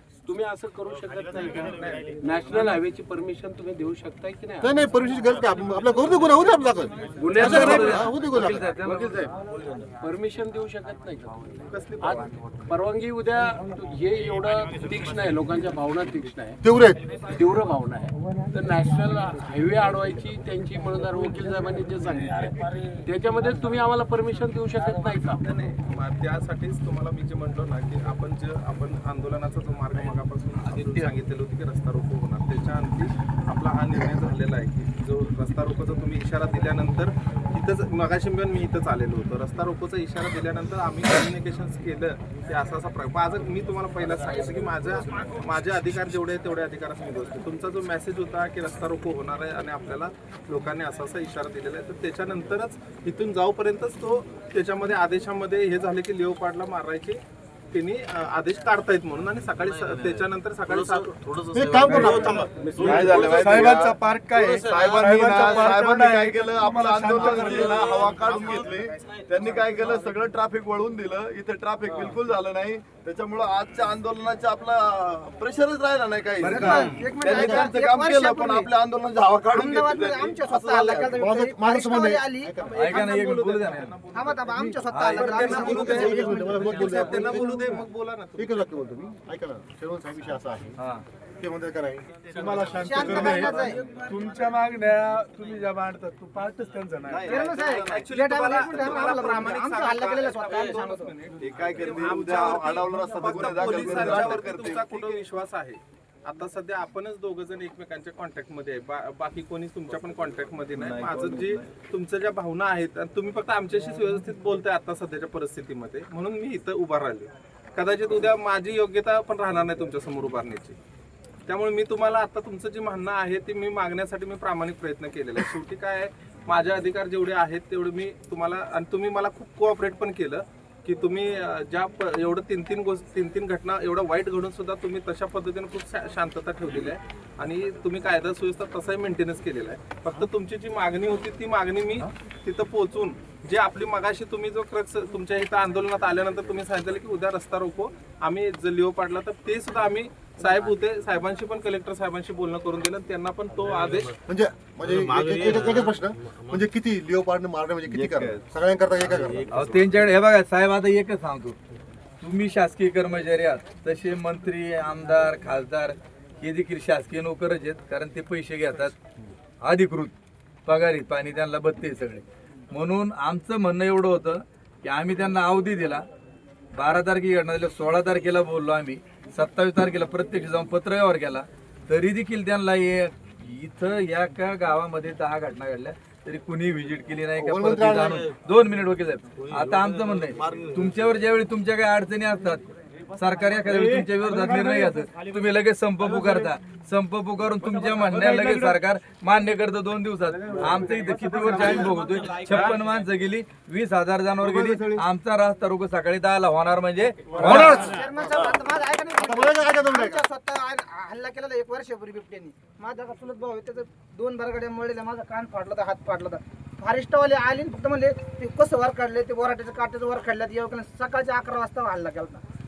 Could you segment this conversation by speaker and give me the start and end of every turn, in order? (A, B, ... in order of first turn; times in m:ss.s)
0:00.2-0:04.9 A
0:04.6-0:08.7 B
0:07.2-0:09.3 A
0:07.3-0:09.7 C
0:10.0-0:16.6 A
0:11.7-0:12.3 D
0:16.6-0:17.0 B
0:17.3-0:25.4 A
0:25.4-0:57.2 D
0:57.7-1:01.1 D
0:59.6-1:05.8 E
1:01.5-1:02.5 B
1:01.9-1:02.2 F
1:02.5-1:03.2 A
1:02.8-1:04.0 G
1:02.8-1:07.8 F
1:05.0-1:21.2 G
1:07.2-1:10.0 E
1:07.9-1:08.3 H
1:16.4-1:18.7 H
1:16.5-1:16.8 C
1:17.2-1:17.7 B
1:19.5-1:22.6 H
1:21.2-1:23.0 B
1:22.6-1:28.8 D
1:22.8-1:24.0 C
1:24.1-1:27.7 H
1:24.9-1:25.3 C
1:25.3-1:27.7 B
1:25.5-1:26.0 G
1:28.4-1:30.8 B
1:30.8-1:31.0 C
1:31.4-1:32.1 B
1:32.3-1:37.3 F
1:32.4-1:32.6 E
1:32.7-1:33.8 H
1:33.0-1:33.4 B
1:33.2-1:33.5 G
1:37.1-1:38.7 G
1:37.2-1:41.1 H
1:37.3-2:00.8 D
1:40.5-1:40.8 E
1:41.4-1:45.1 G
1:43.0-1:44.7 F
1:50.8-1:51.7 C
2:01.5-2:34.1 D
2:33.6-2:34.2 E
2:34.3-2:39.5 B
2:34.8-2:36.7 E
2:37.9-2:38.5 G
2:39.0-2:40.1 E
2:39.5-2:41.6 C
2:42.2-2:49.0 C
2:49.6-2:50.1 C
2:50.7-2:56.0 C
2:56.8-3:12.6 C
3:07.4-3:08.2 B
3:07.9-3:08.4 E
3:09.3-3:11.1 E
3:13.2-3:27.9 C
3:13.7-3:15.1 F
3:16.0-3:16.5 F
3:17.6-3:18.8 F
3:20.3-3:22.8 F
3:24.4-3:25.1 B
3:27.3-3:28.0 F
3:27.4-3:28.6 B
3:27.5-3:42.4 H
3:29.1-3:30.2 B